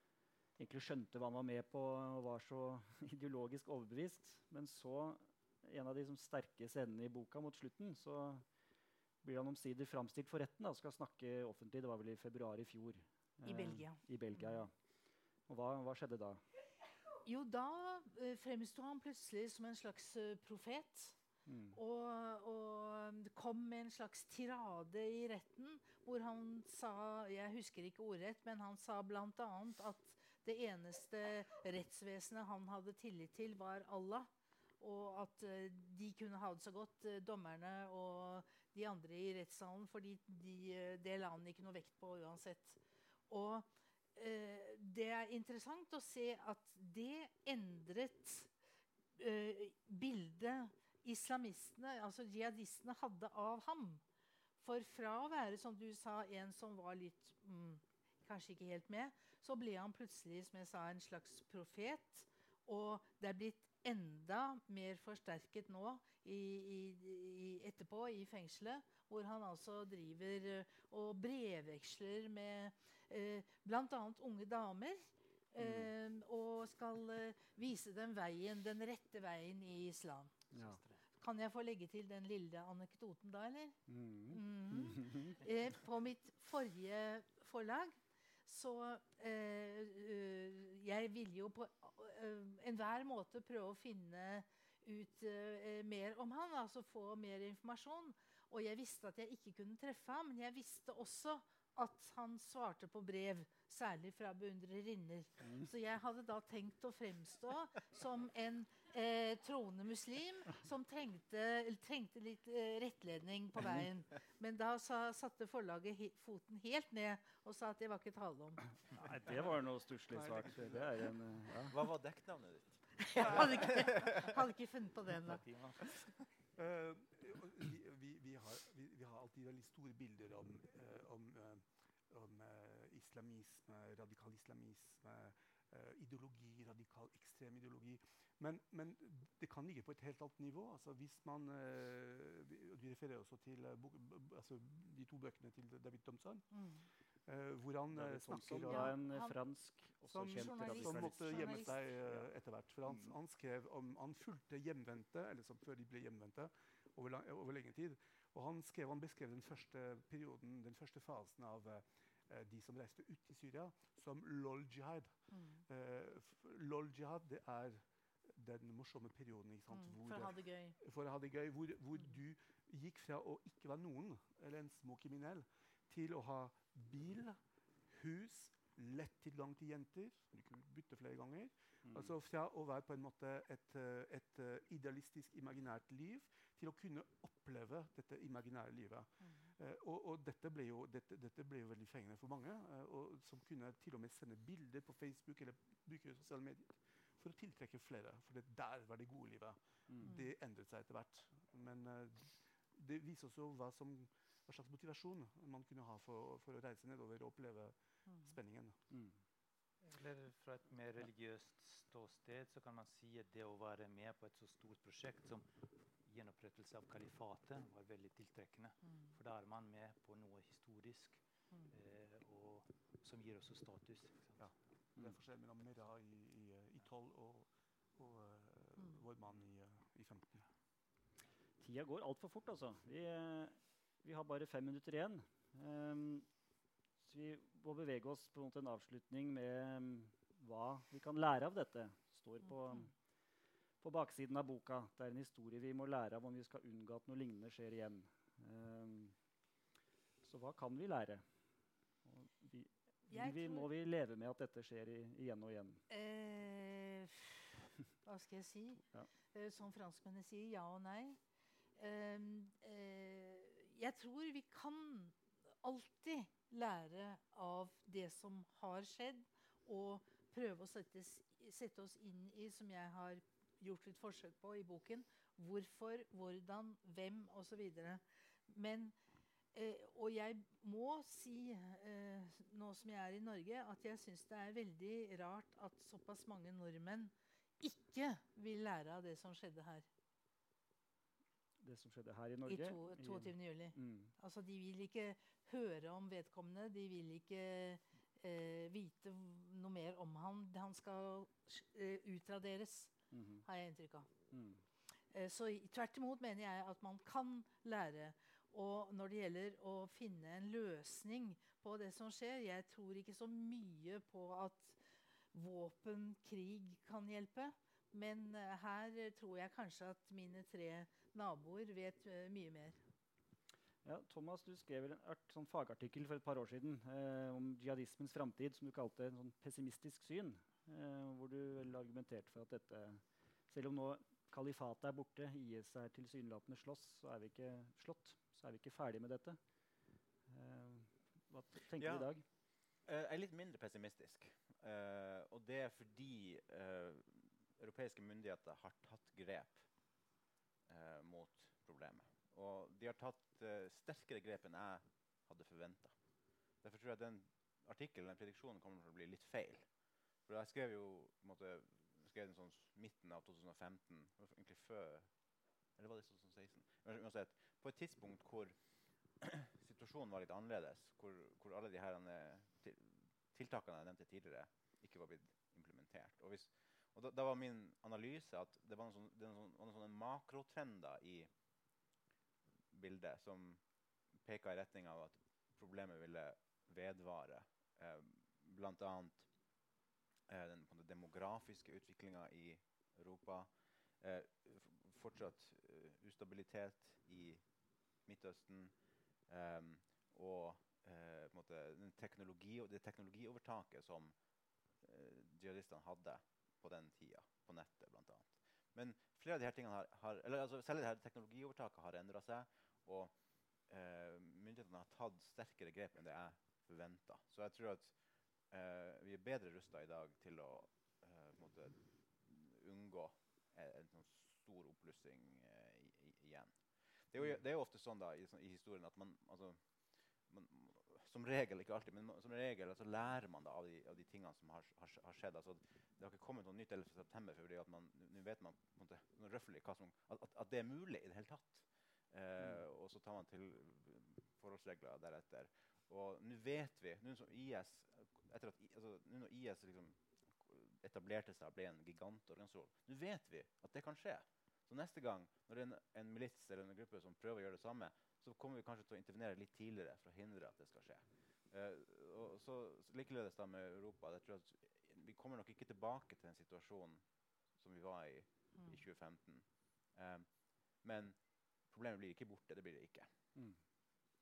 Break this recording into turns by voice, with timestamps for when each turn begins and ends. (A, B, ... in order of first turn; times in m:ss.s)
0:00.6-0:08.4 A
0:09.2-0:14.7 A
0:13.4-0:14.6 B
0:15.5-0:16.4 A
0:17.2-0:21.2 B
0:21.5-0:21.8 A
0:21.7-0:34.3 B
0:34.8-0:48.5 B
0:49.2-0:54.0 B
0:54.6-1:20.4 B
1:15.6-1:15.9 A
1:20.5-1:21.0 C
1:20.5-1:20.8 A
1:21.1-1:23.8 B
1:23.9-1:25.4 A
1:24.3-1:58.6 B
1:58.9-2:01.8 A
2:00.1-2:00.8 D
2:01.7-2:04.4 D
2:03.0-2:06.1 B
2:05.2-2:05.9 C
2:06.6-2:26.5 E
2:26.5-2:26.9 B
2:27.3-2:29.0 E
2:27.9-2:32.3 A
2:28.6-2:29.4 B
2:30.1-2:45.1 E
2:30.1-2:31.8 B
2:45.3-2:45.6 B
2:45.7-2:57.4 E
2:49.7-2:50.8 B
2:57.9-3:28.8 E
3:01.9-3:02.1 A
3:19.9-3:20.1 A
3:28.1-3:28.4 B
3:28.9-3:29.2 A
3:29.8-3:35.5 C
3:36.0-3:44.5 C
3:44.4-3:50.5 E
3:51.6-3:56.3 A
3:57.0-4:02.9 A
4:03.8-4:09.2 A
4:10.2-4:11.2 A
4:12.1-4:15.8 A
4:13.1-4:13.7 B
4:15.9-4:21.2 B
4:21.8-4:39.0 B
4:39.5-4:49.9 B
4:51.6-4:54.1 A
4:52.5-5:02.9 B
5:03.1-5:03.4 A
5:03.4-5:04.1 B
5:04.3-5:04.6 A
5:05.1-5:14.8 B
5:15.3-5:22.8 B
5:23.8-5:39.4 A
5:40.3-5:42.2 A
5:41.8-5:42.1 D
5:42.9-5:49.6 D
5:50.7-5:56.0 D
5:56.6-5:59.7 D
6:00.2-6:05.1 D
6:05.8-6:08.6 D
6:09.2-6:21.3 D
6:22.7-6:23.6 D
6:24.2-6:29.3 D
6:30.3-6:37.4 D
6:38.0-6:38.8 D
6:39.3-6:44.2 D
6:44.8-6:53.1 D
6:53.7-6:58.0 D
6:58.5-7:06.6 D
7:07.1-7:09.6 D
7:10.3-7:53.1 D
7:53.4-7:53.6 A